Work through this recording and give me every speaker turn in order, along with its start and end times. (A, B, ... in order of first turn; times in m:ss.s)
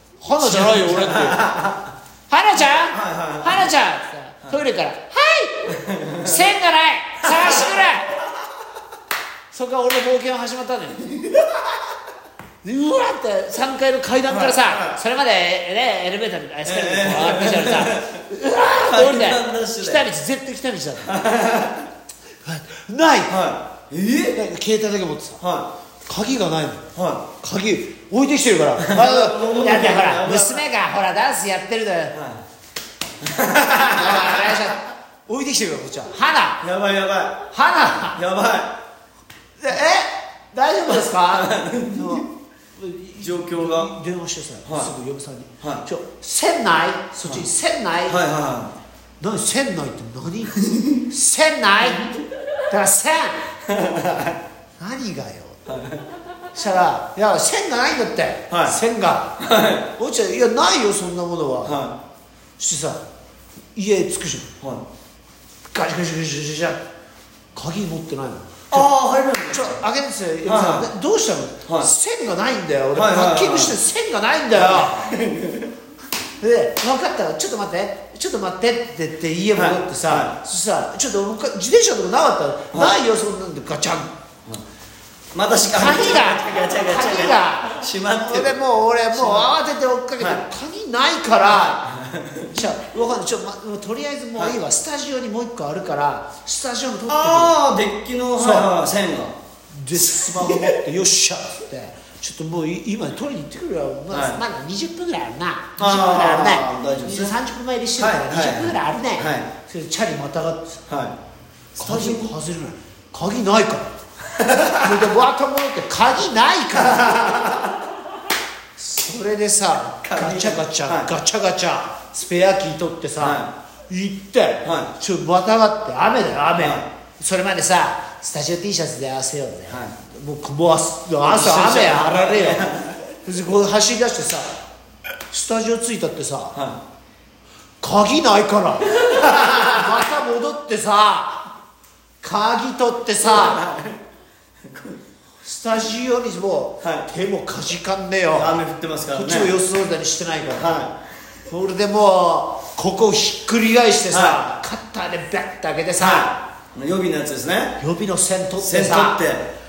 0:00.2-0:01.4 A
0:00.4-0:01.9 B
0:02.3-0:08.2 A
0:02.6-0:03.7 B
0:05.7-0:06.5 B
0:07.2-0:08.0 B
0:09.5-0:11.2 A
0:12.6-0:21.1 A
0:14.3-0:15.0 B
0:16.6-0:18.3 B
0:18.8-0:20.1 B
0:21.0-0:21.9 B
0:22.4-0:23.4 A
0:23.3-0:24.4 B
0:24.3-0:25.4 A
0:25.4-0:25.7 B
0:26.1-0:26.8 A
0:27.0-0:27.3 B
0:27.4-0:32.2 A
0:28.8-0:30.7 B
0:32.1-0:32.4 B
0:33.2-0:34.7 B
0:33.9-0:36.6 A
0:36.6-0:37.5 B
0:37.5-0:38.2 A
0:38.2-0:38.8 B
0:39.6-0:48.2 A
0:40.9-0:42.3 B
0:43.2-0:43.9 B
0:44.6-0:44.9 B
0:45.6-0:45.9 B
0:48.1-0:48.8 B
0:49.2-0:52.1 A
0:52.7-0:53.5 A
0:53.7-0:54.4 B
0:54.8-0:55.6 A
0:55.7-0:56.0 B
0:56.5-0:59.4 A
0:58.5-0:58.8 B
0:59.4-0:59.9 B
1:00.0-1:01.8 A
1:01.6-1:02.0 B
1:02.6-1:03.0 A
1:03.8-1:04.5 A
1:05.7-1:06.8 A
1:07.5-1:08.9 A
1:08.7-1:09.8 B
1:09.5-1:15.1 A
1:10.4-1:10.9 B
1:11.7-1:11.9 B
1:12.9-1:13.8 B
1:14.5-1:15.7 B
1:16.4-1:24.1 A
1:19.5-1:20.4 B
1:22.7-1:23.0 B
1:25.3-1:28.6 B
1:25.7-1:32.0 A
1:29.1-1:29.5 B
1:30.2-1:30.4 B
1:31.8-1:32.5 B
1:32.5-1:37.6 A
1:37.1-1:39.4 B
1:38.4-1:38.7 A
1:39.7-1:50.8 A
1:40.0-1:40.8 B
1:44.1-1:44.4 B
1:45.8-1:47.4 B
1:48.0-1:49.5 B
1:50.9-1:51.2 B
1:51.8-1:52.3 B
1:51.8-1:53.9 A
1:54.4-1:54.9 B
1:54.7-1:57.3 A
1:56.8-1:57.8 B
1:58.8-2:14.6 A
2:00.0-2:01.1 B
2:03.2-2:03.5 B
2:04.6-2:04.9 B
2:06.6-2:06.9 B
2:09.7-2:10.0 B
2:11.2-2:13.0 B
2:15.3-2:16.6 A
2:16.5-2:16.8 B
2:17.8-2:21.5 A
2:19.0-2:19.8 B
2:22.2-2:23.6 A
2:23.2-2:24.0 B
2:24.6-2:25.0 B
2:25.4-2:28.6 A
2:26.8-2:27.1 B
2:28.3-2:29.6 B
2:29.1-2:30.8 A
2:30.5-2:31.0 B
2:31.5-2:36.4 A
2:34.1-2:34.4 B
2:36.0-2:37.8 B
2:37.8-2:39.2 A
2:38.6-2:39.5 B